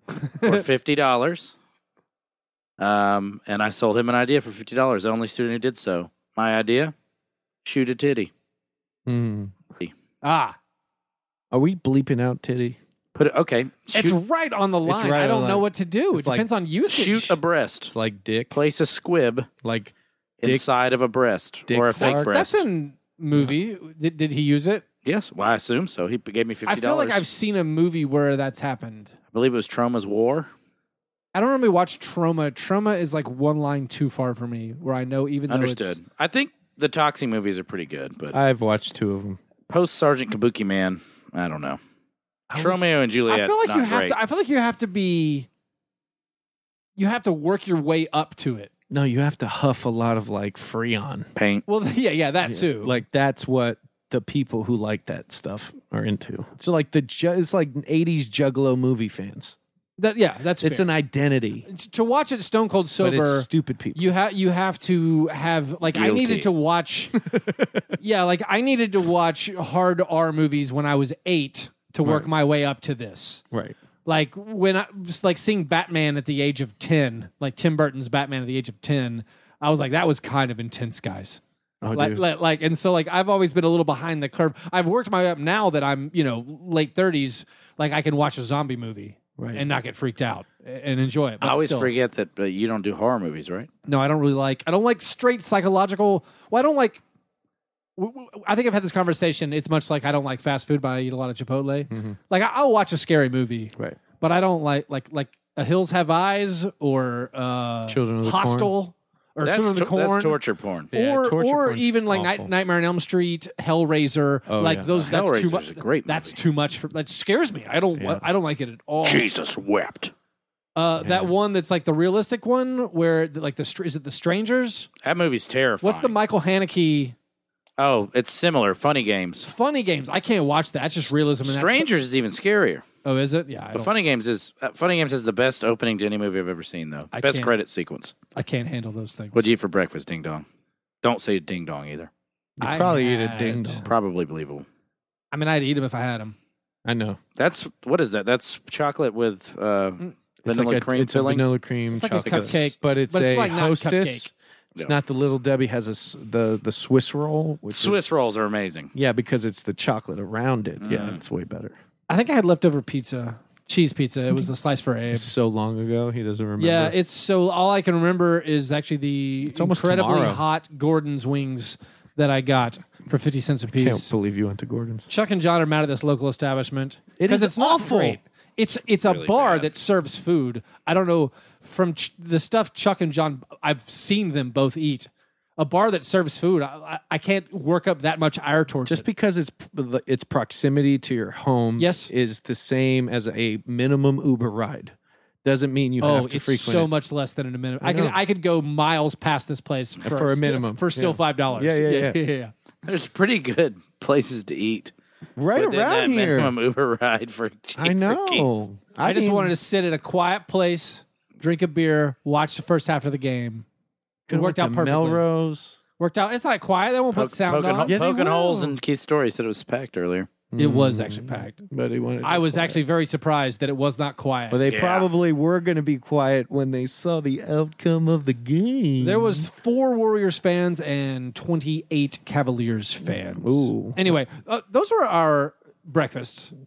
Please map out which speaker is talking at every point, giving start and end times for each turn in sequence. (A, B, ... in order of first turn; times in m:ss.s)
0:00.2-0:00.6 A
0:00.4-0:01.5 B
0:02.8-0:06.9 B
0:07.6-0:08.3 B
0:09.1-0:09.6 C
0:10.2-0:10.6 A
0:11.5-0:12.8 C
0:13.2-0:14.2 B
0:13.9-0:17.4 A
0:14.8-0:16.5 C
0:16.9-0:17.9 B
0:17.9-0:18.6 C
0:18.5-0:19.5 B
0:19.6-0:20.6 C
0:20.4-0:22.6 B
0:21.7-0:22.3 C
0:22.0-0:24.8 A
0:25.0-0:27.2 B
0:26.7-0:29.1 A
0:29.3-0:30.5 B
0:31.3-0:36.0 A
0:35.5-0:38.4 B
0:38.3-0:39.4 C
0:39.7-0:41.8 B
0:42.5-0:42.9 C
0:42.6-0:44.2 B
0:43.3-0:45.5 A
0:47.0-0:48.7 A
0:48.9-0:51.3 C
0:51.4-0:51.6 B
0:51.7-0:53.0 A
0:52.4-0:59.6 C
1:00.0-1:00.9 A
1:00.6-1:01.7 C
1:01.7-1:07.2 A
1:03.0-1:04.1 C
1:05.9-1:06.5 B
1:07.2-1:07.8 C
1:08.0-1:13.4 A
1:12.0-1:12.3 C
1:13.5-1:13.8 C
1:14.0-1:31.9 A
1:21.8-1:22.2 C
1:29.4-1:29.6 C
1:31.4-1:33.7 B
1:33.9-1:37.0 A
1:38.0-1:50.4 A
1:41.9-1:42.2 C
1:47.9-1:48.7 C
1:49.4-1:50.9 B
1:50.9-1:52.5 C
1:50.9-1:59.3 A
1:54.5-1:55.0 C
1:55.0-1:56.4 B
1:58.0-1:58.2 C
1:59.0-2:00.1 B
2:00.8-2:04.9 A
2:01.0-2:01.3 C
2:05.0-2:06.1 B
2:05.8-2:07.2 A
2:07.8-2:09.5 B
2:09.4-2:11.9 A
2:11.4-2:12.8 B
2:13.0-2:13.9 A
2:13.7-2:18.2 B
2:17.1-2:17.5 A
2:18.4-2:19.5 A
2:19.3-2:20.4 B
2:21.0-2:22.1 B
2:22.6-2:23.9 C
2:22.6-2:23.8 A
2:23.8-2:24.7 B
2:25.3-2:26.4 A
2:26.8-2:27.2 C
2:27.4-2:31.5 B
2:30.4-2:38.0 C
2:32.0-2:34.3 A
2:32.2-2:32.6 B
2:37.7-2:38.9 B
2:39.0-2:41.8 C
2:40.8-2:41.2 B
2:42.1-2:45.3 A
2:45.1-2:47.0 C
2:46.6-2:54.1 A
2:49.4-2:50.4 C
2:53.7-2:55.1 C
2:55.1-3:09.1 A
2:57.2-2:58.2 C
2:58.9-2:59.7 B
3:08.9-3:16.9 C
3:11.8-3:12.1 A
3:16.0-3:22.5 A
3:17.8-3:18.2 C
3:20.0-3:22.2 C
3:22.8-3:24.9 B
3:25.4-3:26.5 C
3:25.6-3:28.5 B
3:27.8-3:29.6 C
3:29.0-3:33.6 A
3:34.3-3:35.8 C
3:34.3-3:35.3 A
3:36.0-3:38.0 A
3:37.2-3:40.3 B
3:37.9-3:38.8 C
3:40.5-3:42.8 C
3:40.6-3:41.6 A
3:42.2-3:44.6 A
3:44.5-3:49.5 C
3:44.7-3:45.1 B
3:49.0-3:56.5 A
3:53.1-3:54.2 C